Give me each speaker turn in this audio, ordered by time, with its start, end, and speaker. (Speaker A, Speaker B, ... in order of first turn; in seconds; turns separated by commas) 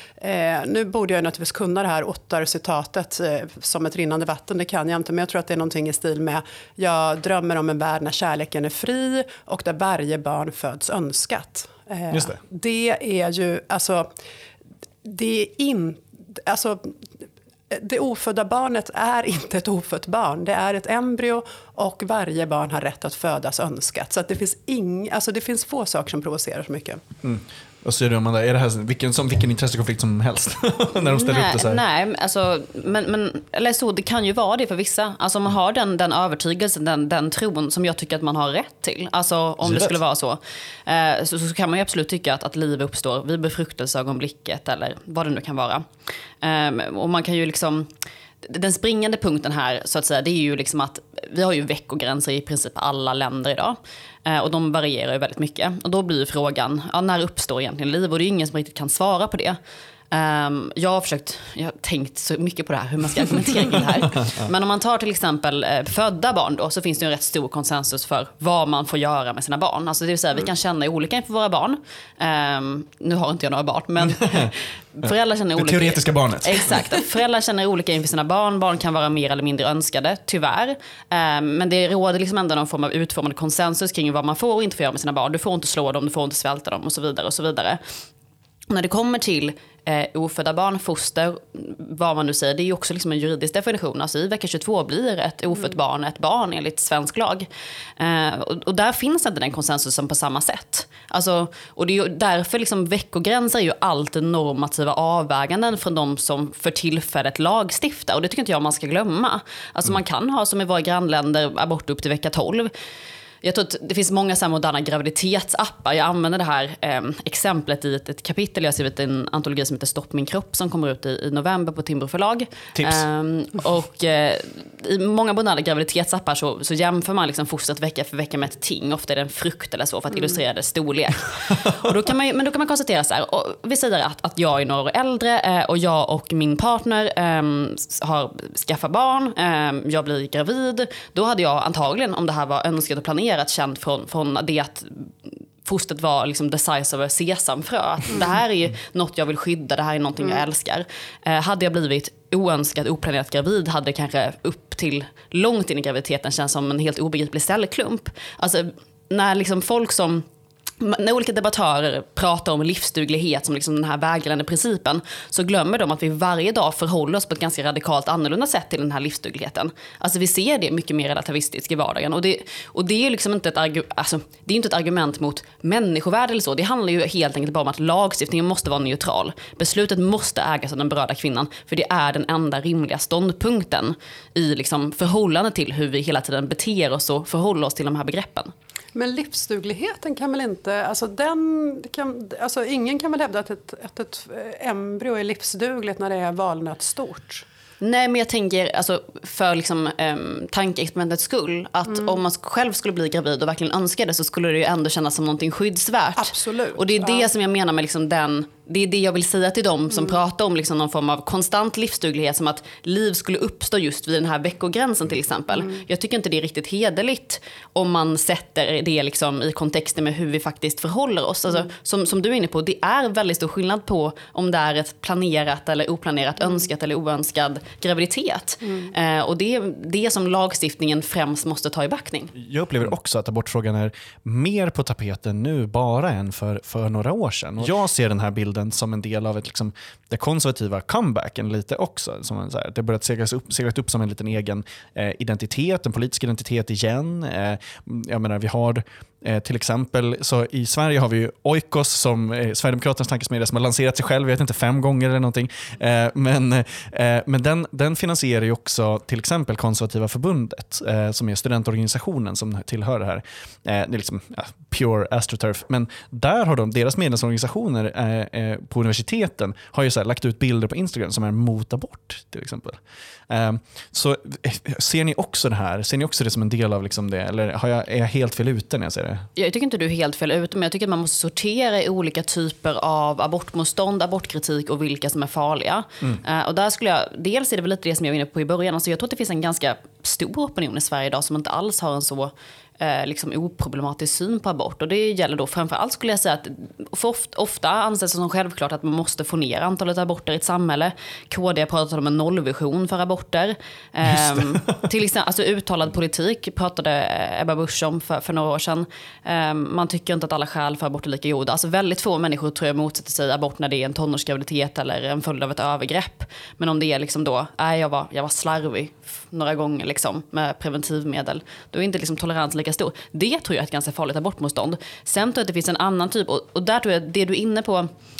Speaker A: 0.2-14.1, Speaker B: 12.1-12.4, Speaker A: 15.0-17.0, Speaker A: 17.7-27.0, Speaker B: 27.2-31.8, Speaker C: 31.0-45.9, Speaker B: 39.6-40.0, Speaker C: 46.4-47.9, Speaker C: 48.4-59.6, Speaker C: 60.1-87.8, Speaker B: 74.0-74.5, Speaker B: 75.5-76.8, Speaker C: 88.7-97.5, Speaker C: 98.0-112.7, Speaker C: 113.4-160.2, Speaker B: 122.7-123.0, Speaker C: 160.8-188.5, Speaker A: 188.9-197.4, Speaker C: 197.8-232.3, Speaker A: 206.2-207.3, Speaker B: 232.3-279.3, Speaker C: 279.4-327.9, Speaker B: 304.0-304.8